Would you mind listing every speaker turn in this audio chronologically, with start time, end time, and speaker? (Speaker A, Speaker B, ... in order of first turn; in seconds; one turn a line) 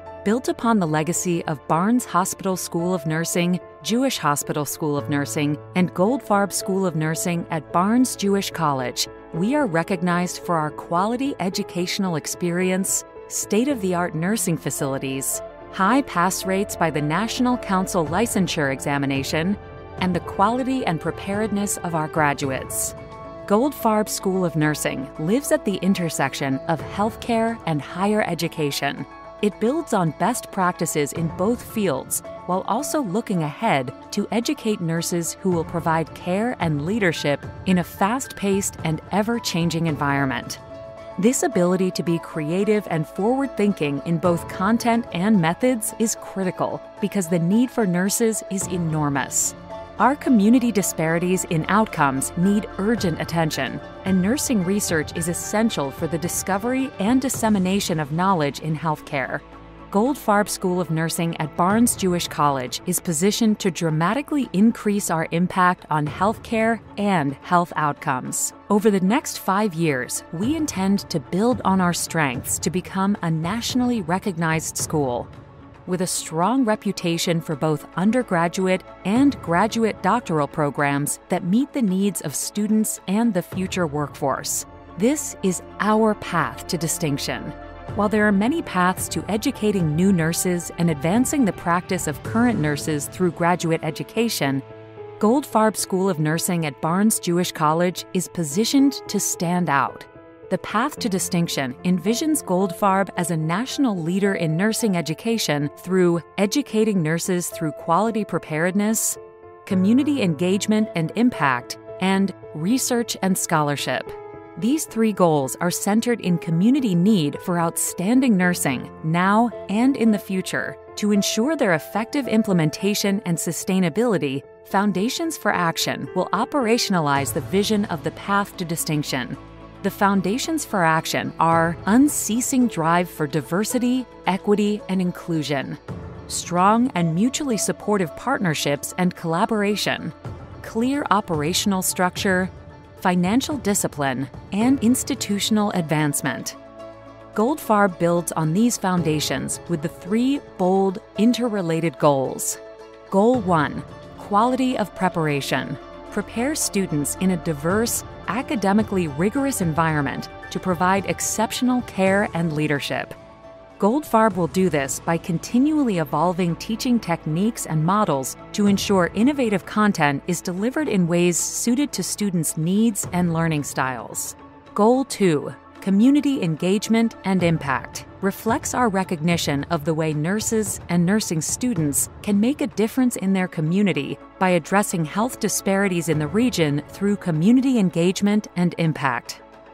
Speaker A: 0.2-40.6
Speaker A: 41.2-75.3
Speaker A: 75.8-94.6
Speaker A: 95.2-146.6
Speaker A: 147.3-163.2
Speaker A: 163.8-189.4